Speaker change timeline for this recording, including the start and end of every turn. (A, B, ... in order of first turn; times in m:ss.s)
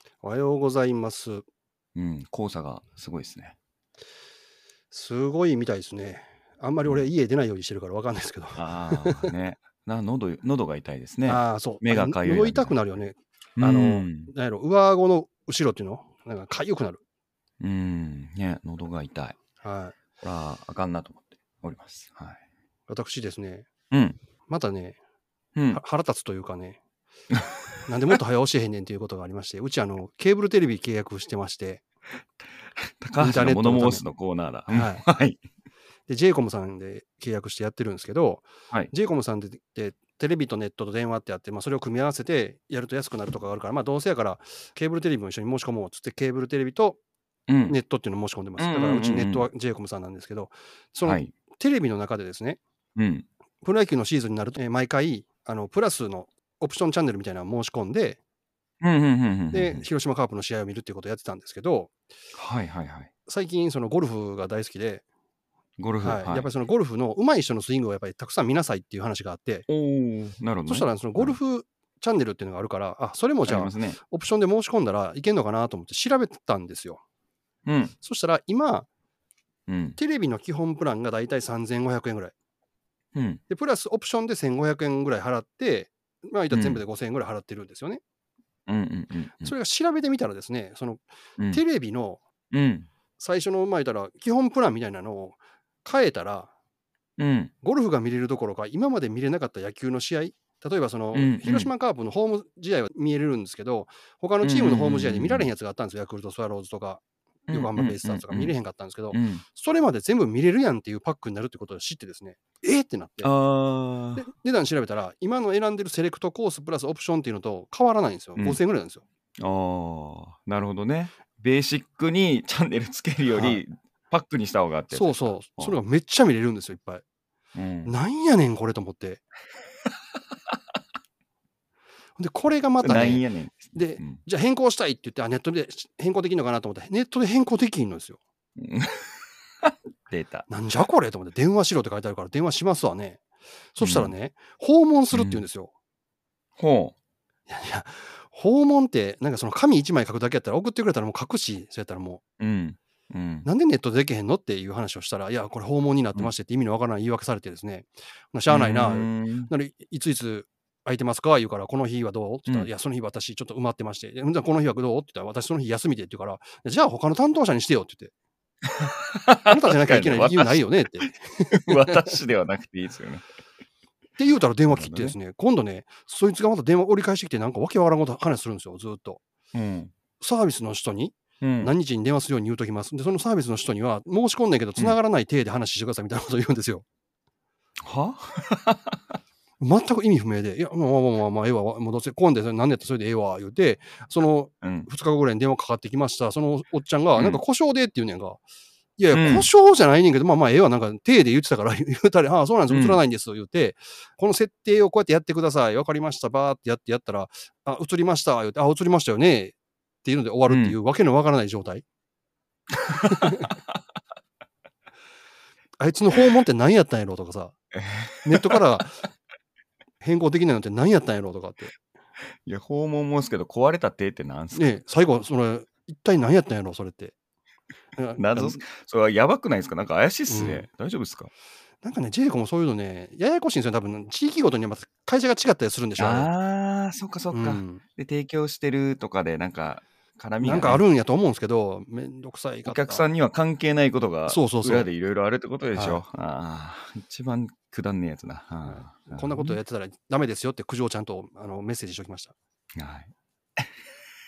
0:00.2-0:01.4 A
0:02.0-0:03.6 B
0:04.9-0:09.3 A
0:06.8-0:07.1 B
0:08.6-0:12.8 B
0:11.2-0:17.0 A
0:13.6-0:14.3 B
0:17.6-0:19.4 B
0:19.6-0:20.0 A
0:20.2-0:22.4 B
0:22.9-0:23.7 A
0:23.9-0:24.2 B
0:24.5-0:25.0 A
0:25.6-0:25.8 B
0:25.7-0:26.8 A
0:27.3-0:27.7 B
0:27.9-0:31.8 A
0:32.8-0:35.4 B
0:33.2-0:34.0 A
0:34.7-0:35.0 A
0:36.1-0:47.0 A
0:47.5-0:47.8 B
0:47.7-0:52.6 A
0:48.6-0:49.5 B
0:51.0-0:51.3 B
0:53.0-0:53.3 B
0:53.6-0:58.2 A
0:58.8-0:59.8 B
0:59.5-1:01.9 A
1:02.3-1:03.1 B
1:03.3-1:05.0 A
1:05.8-1:06.5 B
1:06.0-1:09.7 A
1:09.7-1:11.4 B
1:10.7-1:17.0 A
1:13.5-1:14.0 B
1:17.6-1:17.9 B
1:18.0-1:18.9 A
1:19.7-1:20.0 B
1:20.0-1:22.3 A
1:23.1-1:23.4 B
1:23.5-1:28.0 A
1:26.5-1:26.8 B
1:28.7-1:29.6 B
1:29.4-1:32.2 A
1:32.5-1:32.9 B
1:33.2-1:36.5 A
1:37.2-1:37.5 B
1:37.6-1:53.3 A
1:41.1-1:41.7 B
1:44.4-1:45.5 B
1:47.5-1:48.6 B
1:49.1-1:49.4 B
1:53.2-1:54.3 B
1:54.2-1:59.0 A
1:59.4-2:05.8 B
2:03.3-2:03.6 A
2:04.9-2:07.0 A
2:07.5-2:08.0 B
2:07.8-2:09.2 A
2:12.2-2:18.2 A
2:12.8-2:14.2 B
2:18.6-2:20.5 B
2:20.5-2:23.2 A
2:23.8-2:25.7 A
2:23.8-2:24.2 B
2:25.1-2:25.4 B
2:26.6-2:27.0 B
2:27.5-2:32.2 A
2:32.4-2:33.5 B
2:33.4-2:48.1 A
2:38.5-2:39.5 B
2:48.7-2:53.2 B
2:49.5-2:52.2 A
2:54.2-2:59.2 A
2:54.7-2:55.2 B
2:59.5-2:59.9 B
3:00.2-3:06.8 A
3:01.4-3:01.7 B
3:07.8-3:09.0 B
3:09.6-3:18.4 A
3:14.6-3:14.9 B
3:17.2-3:17.4 B
3:19.0-3:31.8 A
3:19.1-3:19.5 B
3:22.7-3:23.0 B
3:30.5-3:30.8 B
3:32.8-3:33.5 B
3:33.1-3:33.5 A
3:35.8-3:37.6 A
3:37.7-3:38.6 B
3:38.2-3:39.1 A
3:40.0-3:41.8 A
3:42.4-3:44.8 B
3:44.5-3:47.1 A
3:48.0-3:48.6 A
3:48.2-3:51.3 B
3:50.3-3:50.7 A
3:51.8-3:56.3 A
3:56.0-4:00.8 B
3:57.3-3:57.8 A
4:00.4-4:03.0 A
4:02.7-4:09.6 B
4:04.3-4:04.9 A
4:05.7-4:06.0 A
4:08.6-4:12.4 A
4:12.8-4:13.7 B